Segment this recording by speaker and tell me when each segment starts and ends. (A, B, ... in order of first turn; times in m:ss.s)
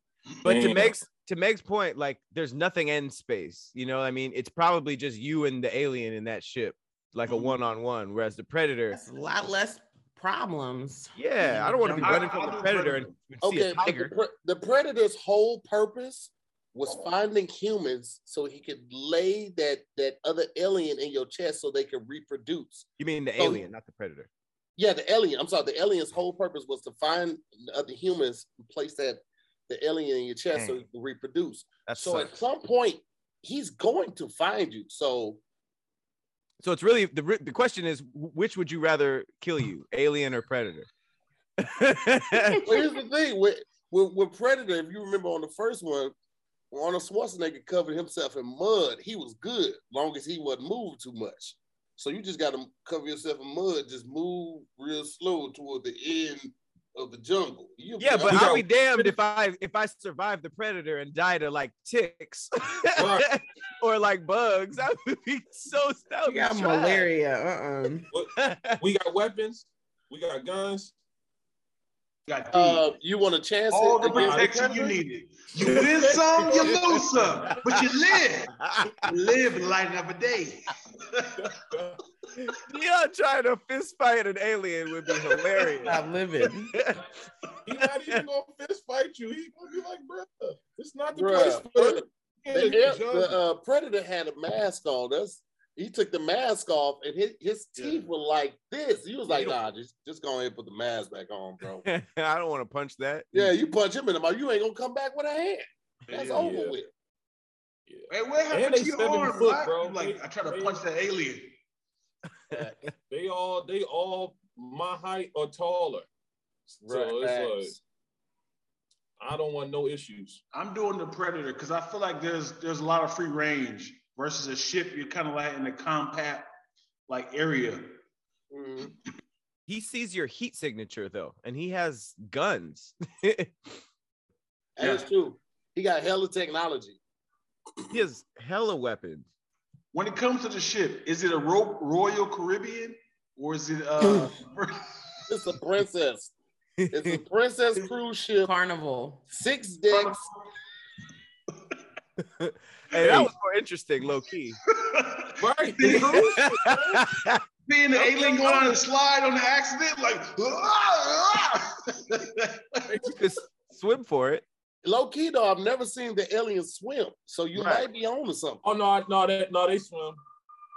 0:00.4-0:01.0 A
0:00.4-0:09.0 B
0:07.2-0:07.6 C
0:08.9-0:12.2 D
0:11.2-0:14.1 B
0:11.6-0:13.2 C
0:13.4-0:22.8 E
0:23.0-0:24.3 B
0:23.4-0:23.6 E
0:24.8-0:35.4 E
0:30.5-0:30.8 B
0:31.8-0:32.4 B
0:36.6-0:40.9 B
0:41.6-0:42.7 B
0:42.6-0:46.1 E
0:46.7-0:58.5 E
0:58.0-1:07.1 B
0:58.2-0:59.1 A
1:03.0-1:03.3 A
1:06.2-1:08.0 D
1:08.1-1:10.9 A
1:08.4-1:08.8 B
1:12.3-1:12.8 C
1:12.5-1:14.9 E
1:13.7-1:21.6 C
1:14.0-1:14.9 A
1:15.5-1:17.6 A
1:18.6-1:19.0 B
1:21.4-1:22.0 A
1:22.4-1:26.0 B
1:25.8-1:26.7 D
1:26.7-1:27.1 B
1:27.6-1:33.4 A
1:27.8-1:28.2 B
1:31.1-1:41.8 E
1:37.8-1:38.0 C
1:39.3-1:39.6 A
1:41.8-1:43.5 B
1:43.3-1:46.9 E
1:46.1-1:46.5 C
1:46.3-1:46.7 A
1:47.9-1:50.8 A
1:48.1-1:51.6 C
1:53.1-1:56.0 A
1:56.7-1:57.8 E
1:56.9-1:57.7 A
1:59.2-2:00.4 A
2:00.5-2:06.5 C
2:07.1-2:08.0 C
2:08.5-2:08.9 E
2:09.7-2:13.8 B
2:14.8-2:17.0 E
2:14.8-2:15.0 C
2:17.9-2:19.3 B
2:19.9-2:25.2 C
2:25.3-2:26.3 E
2:26.8-2:27.2 B
2:26.9-2:28.5 E
2:28.4-2:29.2 D
2:29.3-2:30.2 E
2:29.9-2:30.3 C
2:32.2-2:34.6 B
2:33.0-2:33.3 C
2:34.8-2:36.4 C
2:35.4-2:37.0 A
2:35.9-2:37.4 B
2:37.6-2:43.2 C
2:43.0-2:44.4 B
2:44.8-2:48.6 E
2:47.5-2:47.8 B
2:48.6-2:50.2 A